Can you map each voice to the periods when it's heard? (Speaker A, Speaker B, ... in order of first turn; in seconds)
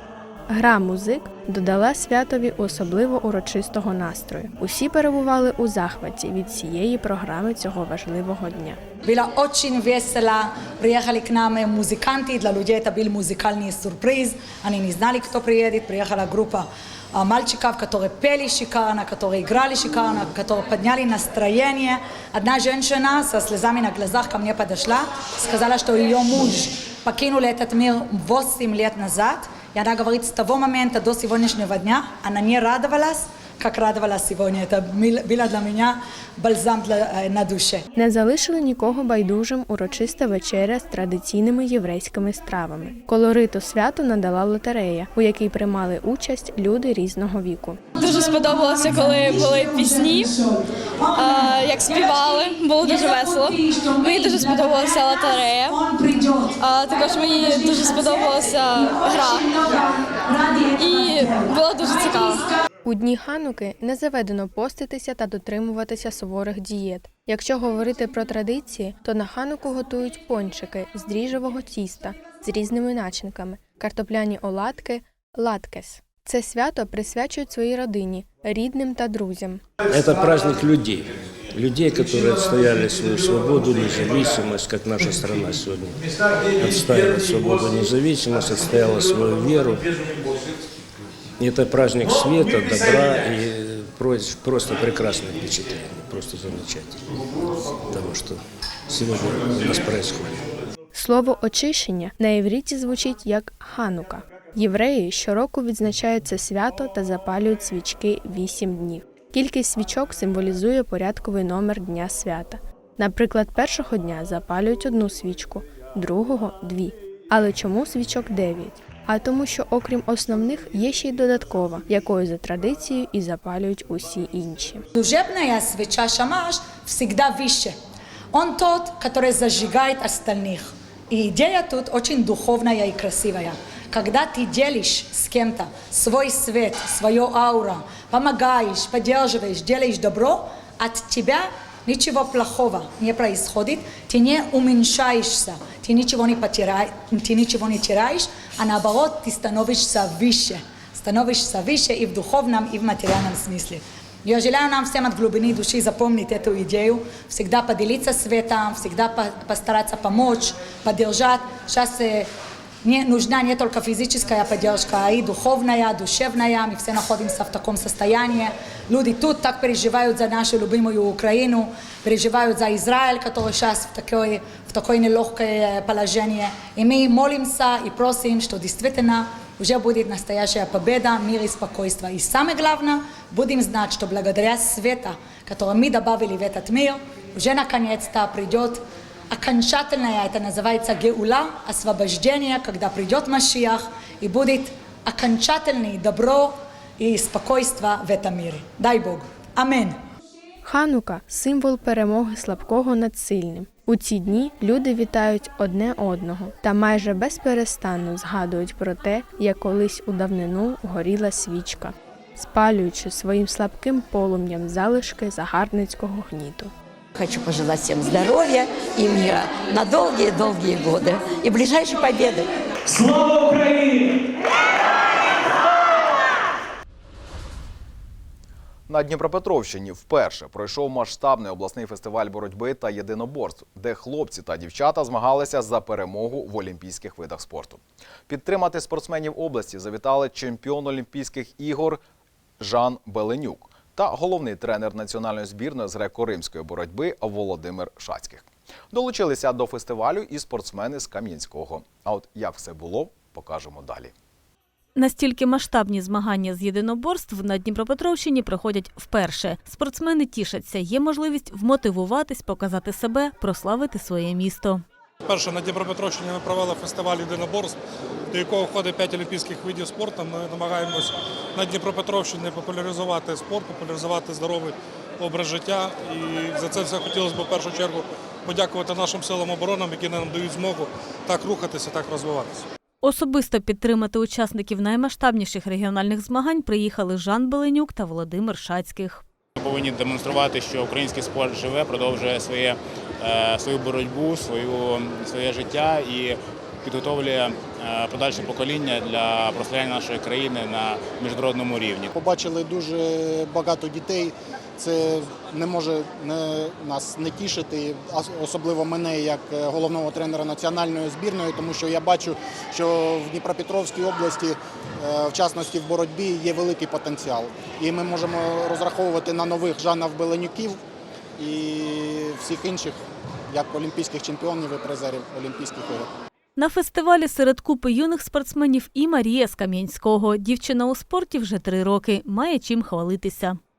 Speaker A: 0.5-8.8, 37.9-47.8, 62.9-79.6, 100.9-124.8, 200.6-216.7
Speaker B: 9.0-37.8, 124.9-127.7, 128.3-162.3, 162.8-200.0
Speaker C: 48.0-50.3, 51.1-55.8, 56.5-59.5, 60.7-62.4, 289.6-302.0
Speaker D: 79.9-86.0, 86.5-89.9, 91.4-100.4
Speaker E: 217.2-222.4
Speaker F: 228.9-242.0, 242.6-254.1
Speaker G: 254.9-264.8, 283.0-289.2, 326.6-333.6
Speaker H: 265.2-267.8, 268.3-282.6
Speaker I: 289.6-320.8, 321.4-326.1